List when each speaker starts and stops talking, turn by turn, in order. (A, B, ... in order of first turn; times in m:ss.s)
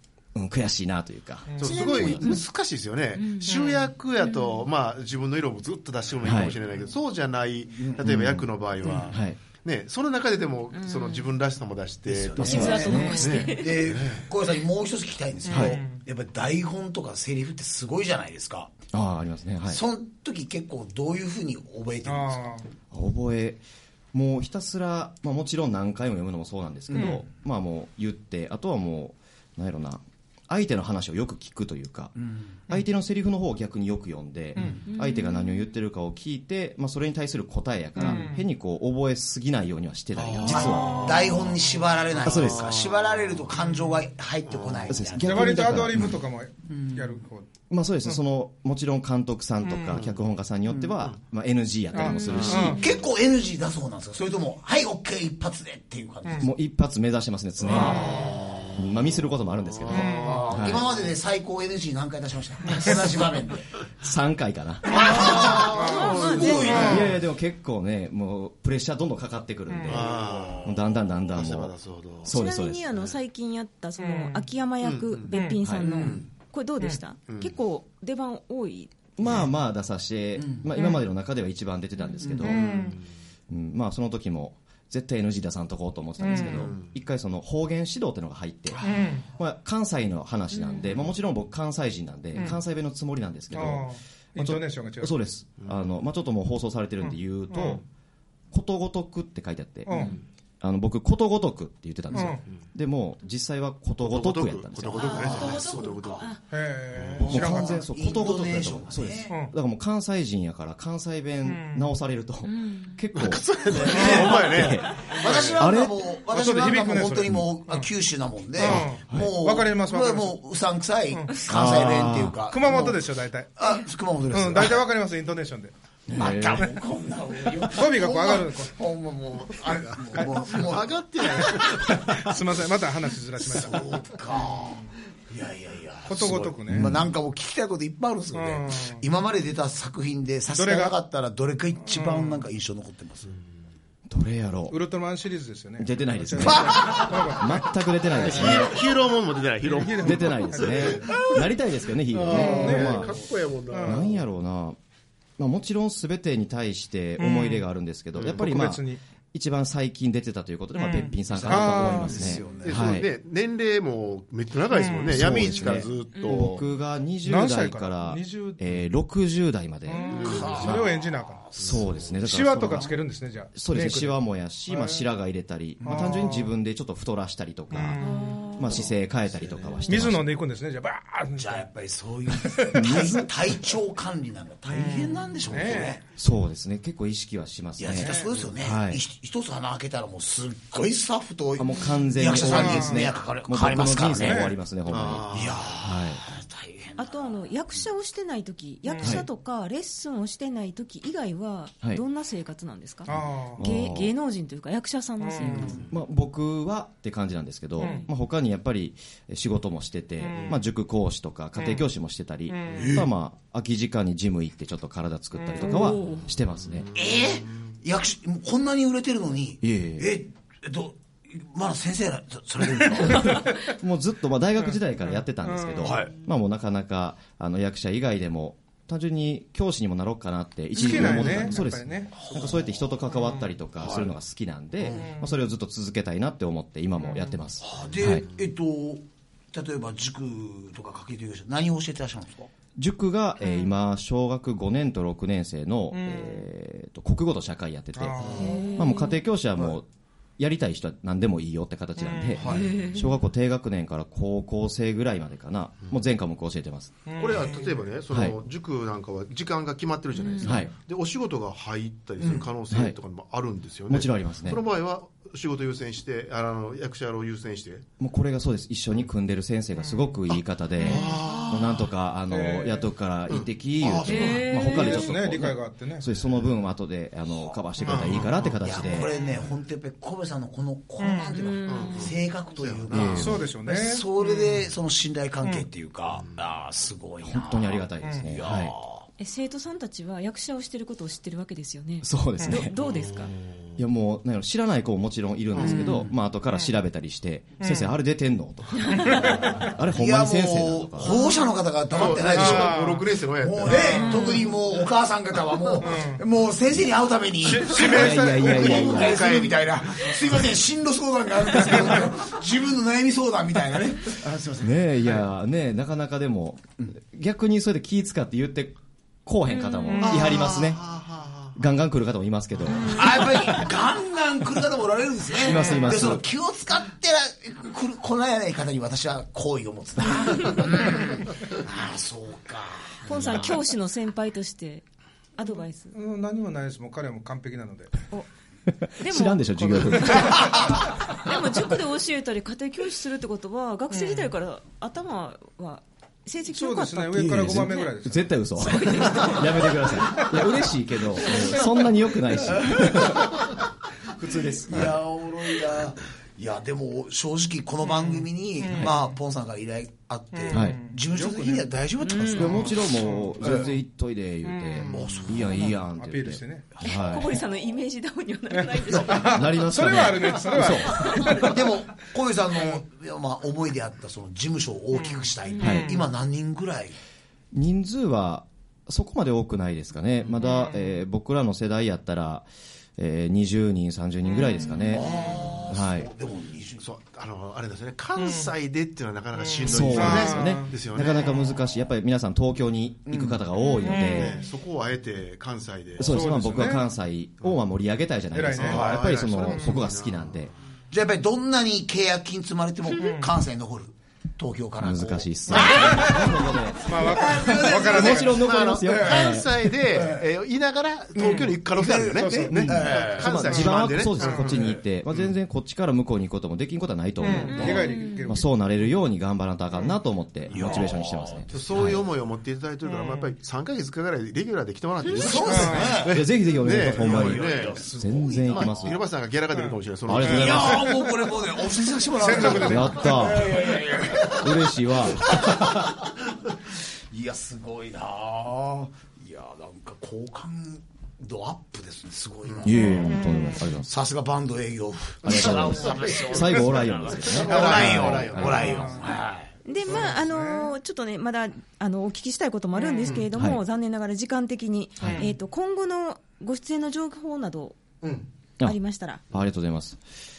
0:00.3-0:02.3 A
0:01.5-0:01.9 B
0:01.6-0:14.3 C
0:01.6-0:02.4 D
0:03.2-0:04.6 D
0:06.2-0:06.6 A
0:07.7-0:08.0 E
0:08.0-0:09.4 A
0:10.7-0:11.3 D
0:12.1-0:18.7 E
0:12.4-0:13.5 A
0:12.4-0:14.0 D
0:15.5-0:15.8 A
0:15.5-0:16.0 B
0:18.9-0:19.8 A
0:19.7-0:22.5 E
0:22.0-0:22.6 B
0:22.9-0:23.6 A
0:24.1-0:32.1 A
0:26.9-0:27.2 E
0:26.9-0:27.2 B
0:32.2-0:32.6 E
0:32.7-0:41.4 A
0:34.9-0:35.7 D
0:38.0-0:38.4 B
0:40.2-0:43.4 C
0:40.4-0:45.8 E
0:42.2-0:42.8 A
0:44.5-0:45.0 C
0:44.9-0:46.2 A
0:45.2-0:47.5 B
0:46.7-0:47.0 E
0:47.7-0:52.8 A
0:49.6-0:50.0 B
0:49.9-0:50.2 C
0:51.9-0:52.8 B
0:52.1-0:52.7 D
0:52.3-0:52.9 C
0:52.6-0:56.5 E
0:56.4-1:00.8 A
0:57.7-0:58.3 E
0:57.7-1:01.1 C
0:57.7-0:58.2 B
0:59.9-1:00.5 B
1:00.0-1:03.7 E
1:04.0-1:05.7 A
1:04.9-1:07.1 E
1:05.0-1:07.1 D
1:05.2-1:07.1 C
1:05.7-1:06.9 B
1:06.4-1:10.1 A
1:09.8-1:10.8 E
1:09.8-1:12.3 C
1:10.6-1:12.8 A
1:12.2-1:18.9 D
1:14.0-1:14.4 B
1:14.8-1:15.3 C
1:15.3-1:15.6 B
1:15.8-1:16.2 E
1:15.9-1:16.2 C
1:17.3-1:17.6 C
1:19.2-1:22.6 A
1:20.4-1:20.7 E
1:22.0-1:22.3 D
1:22.2-1:22.7 E
1:22.4-1:23.0 B
1:22.4-1:23.0 C
1:23.5-1:33.8 A
1:26.2-1:26.7 B
1:26.3-1:26.9 C
1:28.8-1:29.3 B
1:30.5-1:31.0 D
1:33.5-1:35.2 B
1:34.4-1:37.8 A
1:35.6-1:35.8 C
1:37.5-1:37.8 B
1:38.5-1:39.9 A
1:39.9-1:40.2 B
1:40.6-1:45.2 A
1:42.1-1:42.4 B
1:44.0-1:46.4 C
1:45.0-1:46.4 D
1:45.0-1:46.3 E
1:46.5-1:47.8 B
1:46.9-1:47.3 C
1:47.1-1:49.4 E
1:47.3-1:56.0 A
1:51.5-1:51.9 B
1:52.4-1:53.0 D
1:53.1-1:55.6 C
1:53.7-2:03.0 E
1:56.2-1:57.9 B
1:58.6-2:00.4 B
1:58.6-1:59.3 A
2:01.1-2:01.4 B
2:01.5-2:03.0 A
2:02.5-2:03.5 B
2:03.6-2:04.8 E
2:04.3-2:05.7 B
2:06.1-2:06.7 A
2:06.1-2:11.9 E
2:06.2-2:06.8 B
2:07.6-2:08.8 B
2:09.7-2:12.1 C
2:10.1-2:10.6 B
2:11.5-2:13.9 B
2:13.4-2:23.3 E
2:16.1-2:16.9 B
2:16.2-2:16.5 C
2:16.7-2:17.0 A
2:18.3-2:19.0 B
2:20.5-2:21.0 B
2:21.8-2:22.4 B
2:24.1-2:24.8 A
2:24.7-2:27.7 B
2:25.8-2:28.9 A
2:26.4-2:27.4 E
2:28.2-2:31.4 C
2:28.3-2:28.8 B
2:29.6-2:31.3 B
2:30.0-2:33.2 A
2:32.1-2:34.2 C
2:32.2-2:33.0 E
2:32.3-2:33.1 B
2:33.7-2:34.1 B
2:33.8-2:34.8 A
2:35.4-2:38.8 A
2:37.2-2:37.6 B
2:38.2-2:38.5 C
2:38.4-2:39.0 B
2:39.3-2:43.1 A
2:40.8-2:42.4 B
2:41.3-2:43.0 E
2:42.1-2:46.6 C
2:44.7-2:45.3 B
2:45.1-2:50.8 A
2:45.4-2:46.4 D
2:47.2-2:48.6 B
2:49.9-2:51.6 B
2:50.1-2:50.4 D
2:50.1-2:50.8 C
2:50.2-2:53.0 E
2:51.6-2:52.9 A
2:52.2-2:55.0 B
2:53.6-3:00.3 A
2:55.8-2:56.5 B
2:55.8-2:56.1 E
2:57.7-2:58.6 B
2:58.0-2:58.6 D
2:59.4-2:59.8 C
2:59.9-3:01.7 B
3:01.4-3:06.0 E
3:02.3-3:03.1 B
3:02.7-3:03.3 A
3:04.7-3:06.0 B
3:06.2-3:09.0 A
3:07.8-3:14.5 E
3:07.9-3:08.3 B
3:11.6-3:15.3 A
3:12.3-3:13.1 B
3:14.2-3:14.5 B
3:14.9-3:15.7 C
3:15.3-3:17.4 E
3:15.8-3:16.2 A
3:17.0-3:23.1 D
3:18.9-3:19.2 B
3:23.1-3:23.6 B
3:23.6-3:24.1 A
3:23.6-3:25.8 D
3:25.2-3:25.6 B
3:25.4-3:25.9 E
3:25.5-3:25.9 C
3:25.9-3:36.9 A
3:27.8-3:28.1 D
3:27.8-3:28.1 B
3:30.2-3:30.5 B
3:31.6-3:31.8 B
3:32.5-3:32.9 B
3:32.7-3:33.1 E
3:35.4-3:35.9 B
3:35.6-3:36.3 D
3:36.7-3:37.1 C
3:36.9-3:43.4 E
3:39.6-3:40.1 A
3:42.8-3:43.8 B
3:43.1-3:58.3 A
3:44.6-3:46.0 B
3:45.8-3:46.1 E
3:50.8-3:52.3 B
3:50.8-3:52.7 E
3:53.8-3:54.1 E
3:55.0-3:55.4 B
3:57.0-3:57.4 B
3:57.6-4:02.5 E
4:02.8-4:17.0 A
4:03.4-4:03.7 D
4:05.9-4:06.4 B
4:08.0-4:08.7 B
4:08.2-4:08.6 C
4:08.4-4:09.2 D
4:12.0-4:12.4 B
4:12.4-4:12.8 C
4:12.4-4:13.1 D
4:17.1-4:17.7 B
4:17.2-4:27.9 C
4:18.1-4:18.4 A
4:20.2-4:20.5 D
4:20.4-4:20.7 A
4:22.7-4:23.0 A
4:23.9-4:24.6 A
4:28.0-4:39.1 A
4:30.8-4:31.2 D
4:30.8-4:31.9 C
4:31.3-4:31.6 E
4:32.3-4:32.8 B
4:33.3-4:34.6 C
4:34.0-4:35.2 D
4:34.5-4:36.1 B
4:37.8-4:38.6 C
4:38.6-4:49.1 E
4:41.0-4:41.4 B
4:41.4-4:42.2 D
4:41.7-4:43.3 C
4:42.9-4:43.3 A
4:43.0-4:44.5 B
4:47.2-4:48.8 A
4:49.2-4:53.4 D
4:52.0-4:52.8 A
4:52.8-4:53.5 C
4:53.8-5:01.1 A
4:55.5-4:56.0 C
4:55.6-4:56.1 E
4:57.6-4:57.9 B
4:58.9-4:59.7 B
4:59.2-5:15.0 E
5:01.0-5:01.5 D
5:01.9-5:04.3 C
5:02.1-5:03.1 B
5:03.7-5:04.5 B
5:05.8-5:06.2 B
5:07.4-5:09.0 B
5:07.7-5:09.4 A
5:08.5-5:10.2 C
5:14.6-5:20.8 A
5:19.6-5:20.1 D
5:19.9-5:20.3 B
5:20.0-5:21.6 C
5:21.6-5:23.3 A
5:22.7-5:33.6 E
5:25.4-5:26.2 A
5:30.3-5:30.6 D
5:33.1-5:36.0 D
5:35.9-5:38.1 B
5:39.0-5:47.8 D
5:39.0-5:40.8 A
5:39.6-5:40.8 B
5:43.9-5:44.3 B
5:46.5-5:48.2 B
5:47.1-5:53.4 A
5:48.6-5:50.3 D
5:52.4-5:53.5 E
5:54.1-5:55.0 A
5:54.7-6:02.8 E
5:57.9-5:59.0 B
6:00.3-6:01.8 B
6:00.5-6:00.8 A
6:02.0-6:02.6 D
6:02.4-6:07.3 A
6:02.4-6:03.7 B
6:03.4-6:03.7 E
6:04.4-6:06.7 B
6:04.8-6:05.8 E
6:06.8-6:09.6 D
6:08.5-6:11.7 B
6:08.9-6:09.3 E
6:09.2-6:11.4 A
6:10.9-6:11.2 D
6:11.2-6:17.0 E
6:14.9-6:16.1 B
6:15.5-6:15.8 D
6:15.6-6:15.9 A
6:17.5-6:25.2 A
6:20.5-6:20.8 B
6:24.5-6:25.1 D
6:24.9-6:26.8 E
6:25.7-6:26.1 A
6:26.8-6:31.6 C
6:28.2-6:28.5 B
6:29.4-6:30.8 B
6:29.6-6:34.4 A
6:33.1-6:33.4 E
6:33.6-6:34.3 D
6:33.8-6:34.4 B
6:33.9-6:36.1 C
6:36.0-6:40.5 A
6:36.0-6:36.8 B
6:38.3-6:39.8 B
6:38.6-6:40.5 C
6:40.9-6:48.4 E
6:43.0-6:43.3 B
6:44.8-6:49.7 A
6:45.6-6:49.3 B
6:47.9-6:55.4 C
6:49.9-6:50.3 E
6:51.2-6:52.7 B
6:51.2-6:53.7 E
6:52.3-7:02.0 A
6:53.5-6:54.8 B
6:57.2-6:58.5 B
6:57.3-6:57.7 C
6:57.5-6:58.4 D
7:00.5-7:01.9 E
7:01.5-7:07.8 C
7:02.9-7:03.3 B
7:05.1-7:06.2 E
7:05.4-7:06.0 B
7:06.0-7:09.0 A
7:06.8-7:09.0 E
7:08.4-7:10.8 C
7:09.5-7:09.8 B
7:10.1-7:11.0 A
7:10.2-7:16.1 E
7:12.1-7:13.6 B
7:12.4-7:13.6 A
7:14.2-7:16.0 A
7:17.1-7:29.5 E
7:22.5-7:22.9 C
7:22.6-7:23.9 A
7:23.0-7:23.4 B
7:25.2-7:28.8 A
7:25.2-7:26.5 C
7:27.2-7:29.0 C
7:27.6-7:29.2 B
7:29.6-7:37.9 D
7:29.9-7:30.7 B
7:29.9-7:30.2 C
7:32.8-7:33.2 B
7:33.3-7:33.6 A
7:35.0-7:35.3 A
7:38.6-7:39.2 D
7:39.3-7:40.0 A